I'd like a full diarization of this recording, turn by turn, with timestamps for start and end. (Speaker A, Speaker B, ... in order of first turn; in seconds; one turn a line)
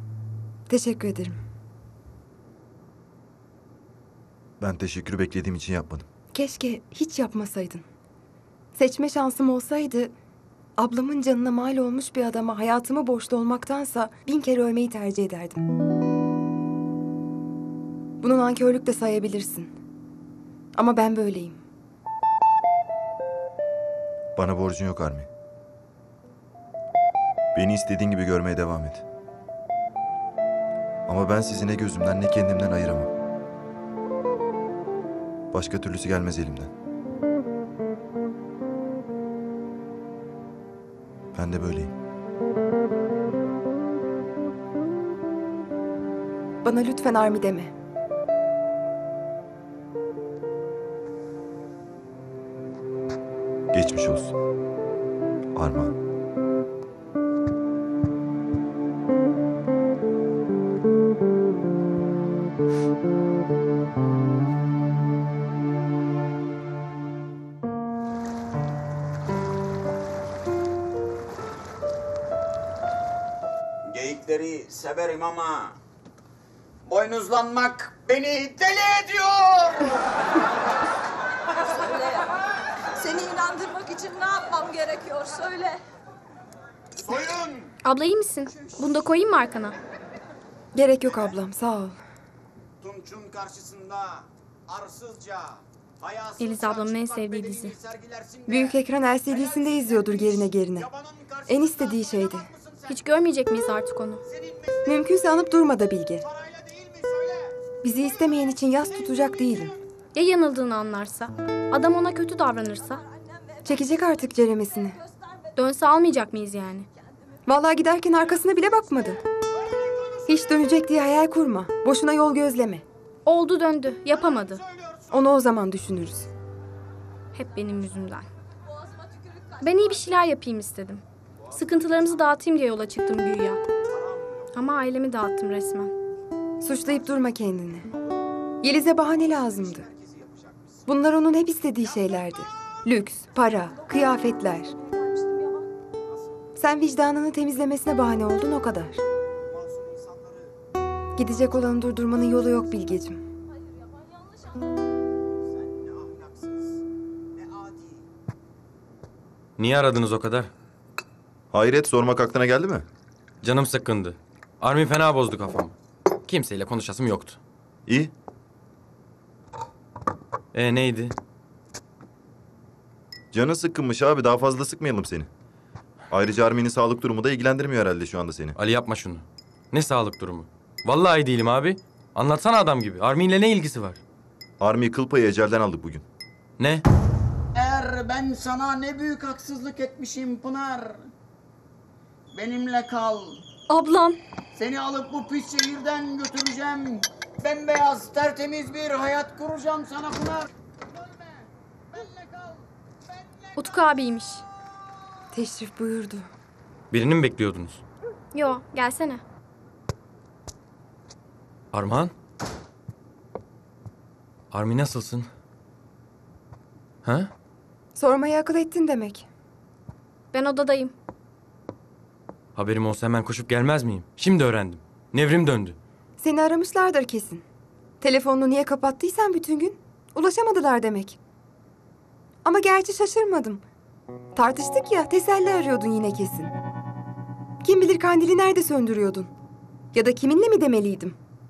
Speaker A: 0.7-1.4
Speaker B: 4.6-6.1
Speaker A: 6.3-7.8
Speaker A: 8.7-10.1
Speaker A: 10.8-15.6
Speaker A: 18.2-19.7
Speaker A: 20.7-21.6
Speaker B: 24.4-25.3
Speaker B: 27.5-29.0
Speaker B: 31.1-33.1
Speaker B: 35.5-36.7
Speaker B: 41.3-41.9
Speaker A: 46.6-47.7
Speaker B: 53.7-54.3
Speaker B: 55.5-55.9
Speaker C: 73.9-75.7
Speaker C: 76.8-79.8
Speaker D: 83.0-85.8
Speaker C: 87.0-87.6
Speaker E: 87.8-89.8
Speaker A: 90.7-92.0
Speaker C: 92.8-96.4
Speaker E: 96.4-97.8
Speaker C: 97.6-98.5
Speaker A: 98.5-100.9
Speaker C: 100.9-101.3
Speaker A: 101.5-102.5
Speaker E: 102.9-104.2
Speaker A: 104.8-106.2
Speaker C: 106.8-107.3
Speaker A: 107.8-109.7
Speaker E: 110.1-113.0
Speaker A: 113.6-115.0
Speaker E: 115.5-116.8
Speaker A: 117.5-119.2
Speaker A: 120.3-122.8
Speaker E: 123.2-124.6
Speaker A: 125.1-126.3
Speaker E: 127.3-128.3
Speaker E: 129.6-133.6
Speaker E: 134.5-135.9
Speaker A: 136.6-137.9
Speaker A: 138.6-139.9
Speaker A: 140.8-144.7
Speaker A: 146.6-149.0
Speaker A: 151.2-153.2
Speaker F: 159.6-160.5
Speaker B: 161.5-162.9
Speaker F: 163.4-165.8
Speaker F: 166.3-167.4
Speaker B: 167.9-168.1
Speaker F: 170.5-171.1
Speaker B: 173.3-175.3
Speaker B: 176.1-178.6
Speaker F: 178.6-184.0
Speaker B: 184.6-186.0
Speaker F: 186.6-186.8
Speaker C: 187.5-191.0
Speaker C: 192.3-193.4
Speaker E: 193.7-194.2
Speaker C: 194.5-200.5
Speaker E: 203.6-204.4
Speaker A: 205.3-206.3
Speaker F: 206.9-207.8
Speaker E: 208.3-209.2
Speaker F: 211.7-212.1
Speaker F: 214.5-215.3
Speaker F: 217.0-217.3
Speaker A: 217.9-219.3
Speaker E: 220.3-220.9
Speaker F: 222.5-225.8
Speaker A: 226.2-227.4
Speaker A: 228.0-231.2
Speaker A: 232.4-233.6
Speaker A: 234.3-236.5
Speaker A: 237.6-239.3
Speaker A: 239.9-241.2